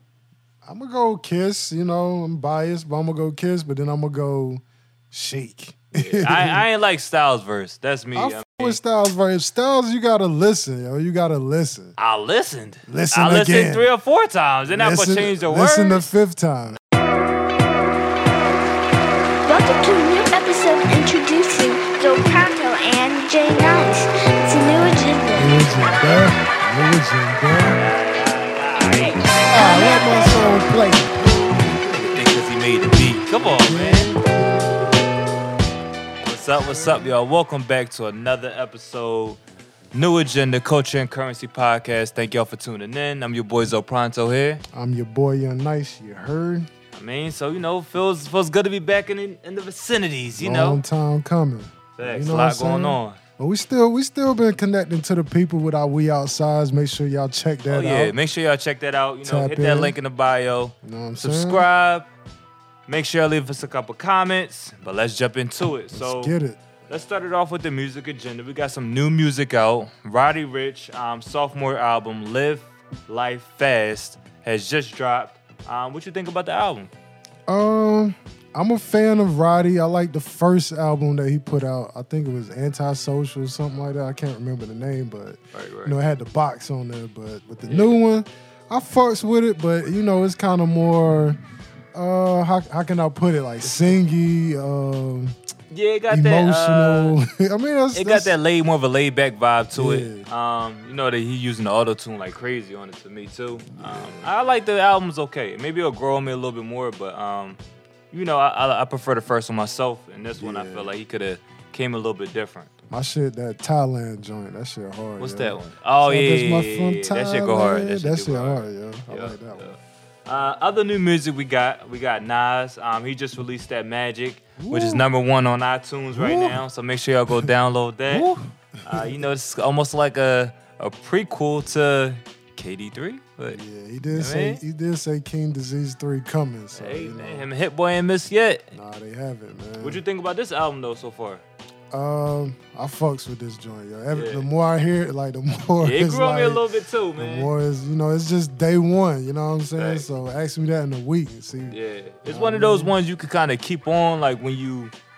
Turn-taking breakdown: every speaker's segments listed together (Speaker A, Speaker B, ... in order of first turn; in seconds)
Speaker A: 0.6-6.7, 8.1-12.0, 12.9-13.9, 14.7-16.8, 25.3-27.8, 29.5-32.2, 33.4-35.1, 36.6-37.1, 44.7-46.7, 50.4-58.2, 59.2-60.0, 60.8-61.6, 65.9-66.7, 77.5-91.4, 91.9-95.4, 96.1-98.3, 99.7-100.3, 103.7-104.3, 110.4-110.9, 112.9-119.8, 124.6-125.0, 126.1-126.6, 128.1-129.2, 133.5-137.5, 138.7-140.0, 141.9-146.6, 147.2-153.0
Speaker B: 5.9-8.8, 12.0-16.1, 27.6-29.7, 31.9-34.2, 36.2-39.4, 39.9-44.6, 46.9-50.8, 52.0-53.2, 57.7-62.1, 62.9-66.3, 66.9-76.9, 85.5-86.0, 87.7-88.0, 95.7-97.2, 97.9-107.6, 108.1-112.7, 115.2-128.3, 128.8-133.6, 134.1-134.6, 136.7-138.7, 139.8-141.4, 144.1-144.5, 145.8-147.5, 149.8-150.1, 151.7-154.9
Speaker C: 19.5-26.2, 29.4-30.5